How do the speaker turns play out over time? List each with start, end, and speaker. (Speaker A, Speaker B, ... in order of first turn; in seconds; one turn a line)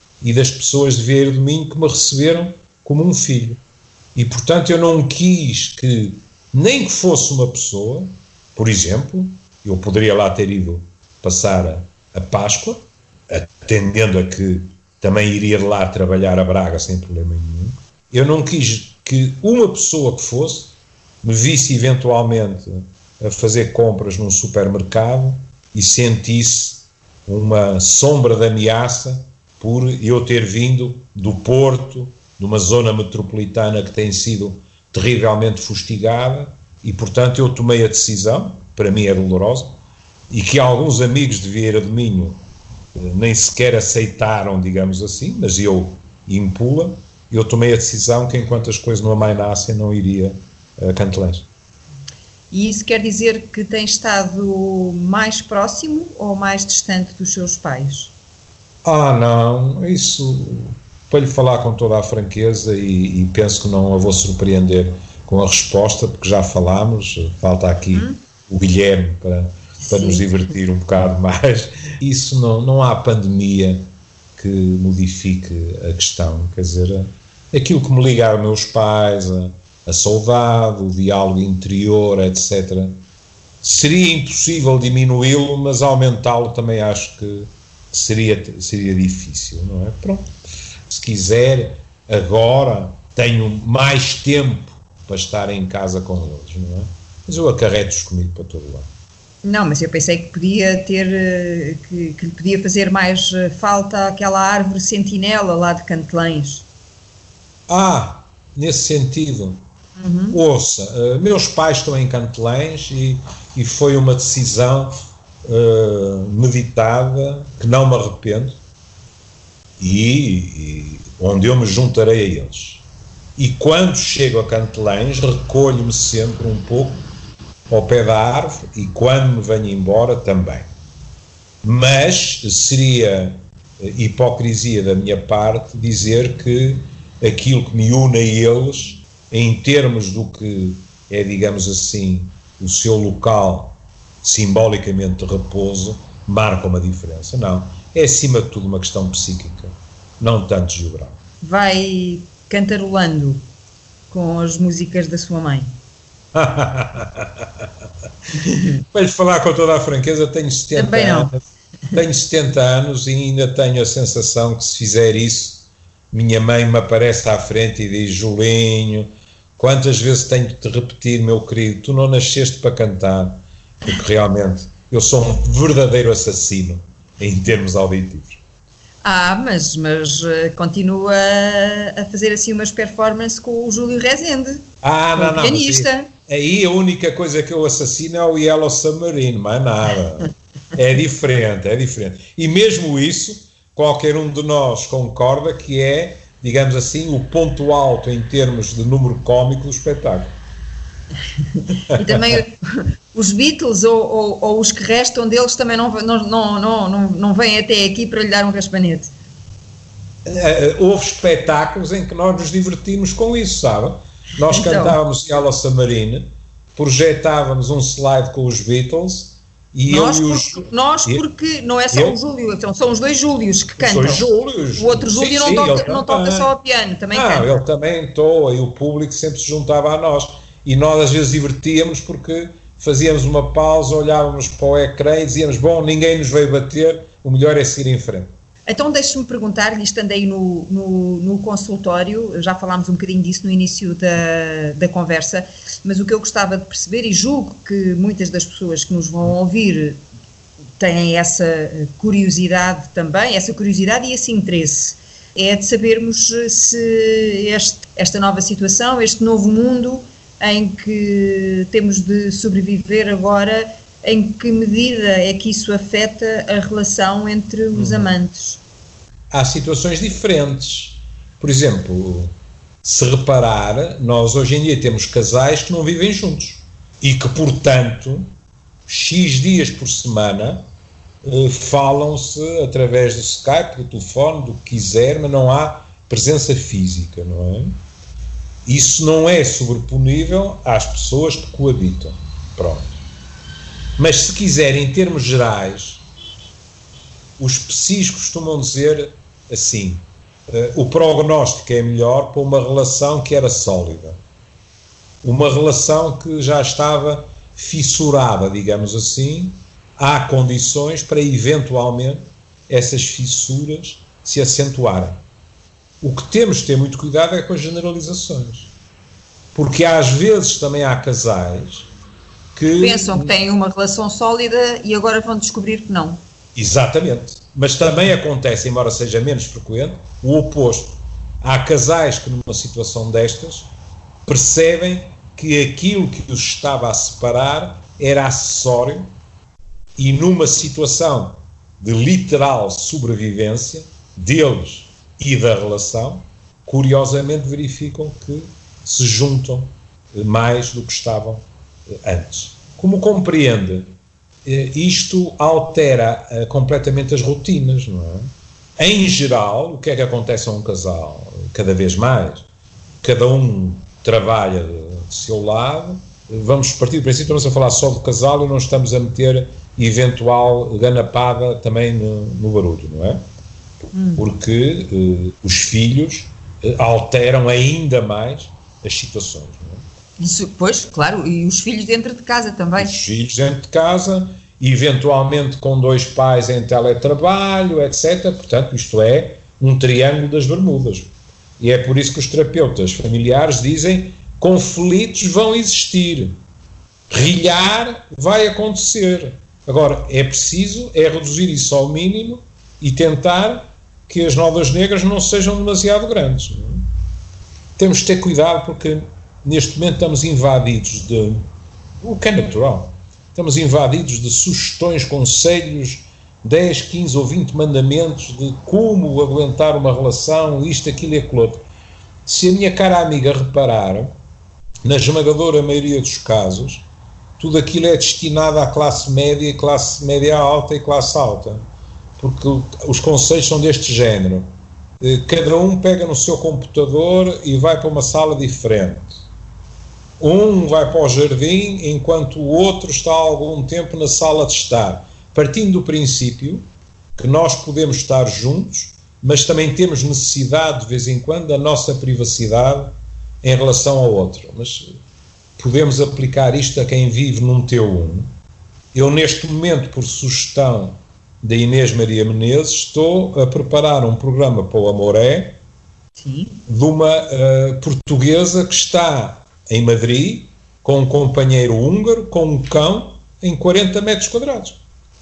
Speaker A: 0.2-3.6
Speaker A: 4.1-39.7
Speaker A: 40.3-42.4
Speaker A: 42.9-51.5
Speaker B: 52.5-58.1
Speaker A: 58.8-83.0
Speaker B: 69.8-70.2
Speaker A: 83.6-90.3
Speaker A: 90.9-98.9
Speaker B: 99.4-106.6
Speaker A: 107.7-109.6
Speaker B: 110.0-110.4
Speaker A: 110.3-118.6
Speaker A: 119.8-122.8
Speaker A: 123.3-127.0
Speaker A: 127.7-130.7
Speaker A: 131.6-151.2
Speaker B: 151.4-153.4
Speaker B: 154.1-155.7
Speaker A: 156.3-157.7
Speaker A: 158.8-161.4
Speaker B: 160.7-161.3
Speaker A: 161.9-178.4
Speaker B: 179.0-186.1
Speaker A: 184.8-200.3
Speaker B: 201.8-209.1
Speaker A: 201.9-202.4
Speaker A: 210.2-221.2
Speaker B: 214.5-215.0
Speaker B: 219.9-224.2
Speaker A: 221.9-222.2
Speaker A: 223.8-226.5
Speaker B: 224.8-227.5
Speaker A: 227.1-238.3
Speaker B: 238.7-250.0
Speaker B: 250.8-268.6
Speaker A: 267.7-268.2
Speaker A: 269.3-272.3
Speaker A: 272.8-278.3
Speaker A: 278.9-280.6
Speaker A: 281.2-287.7
Speaker A: 288.6-293.0
Speaker A: 294.0-296.0
Speaker A: 297.4-304.2
Speaker A: 305.2-315.2
Speaker A: 316.0-318.7
Speaker A: 319.5-321.9
Speaker A: 322.5-323.3
Speaker B: 322.8-326.2
Speaker A: 326.6-333.7
Speaker A: 334.2-339.1
Speaker A: 340.0-353.9
Speaker A: 354.4-362.4
Speaker A: 363.0-373.2
Speaker B: 373.9-374.2
Speaker A: 374.1-379.8
Speaker B: 380.2-382.9
Speaker A: 382.8-396.4
Speaker A: 397.1-406.8
Speaker A: 407.8-411.5
Speaker A: 412.0-421.6
Speaker A: 422.2-424.1
Speaker A: 424.8-426.8
Speaker A: 427.4-431.6
Speaker A: 432.2-434.5
Speaker A: 435.0-439.2
Speaker A: 440.2-446.6
Speaker A: 447.1-454.9
Speaker A: 455.6-458.3
Speaker A: 458.9-465.6
Speaker B: 466.2-466.6
Speaker A: 466.7-474.8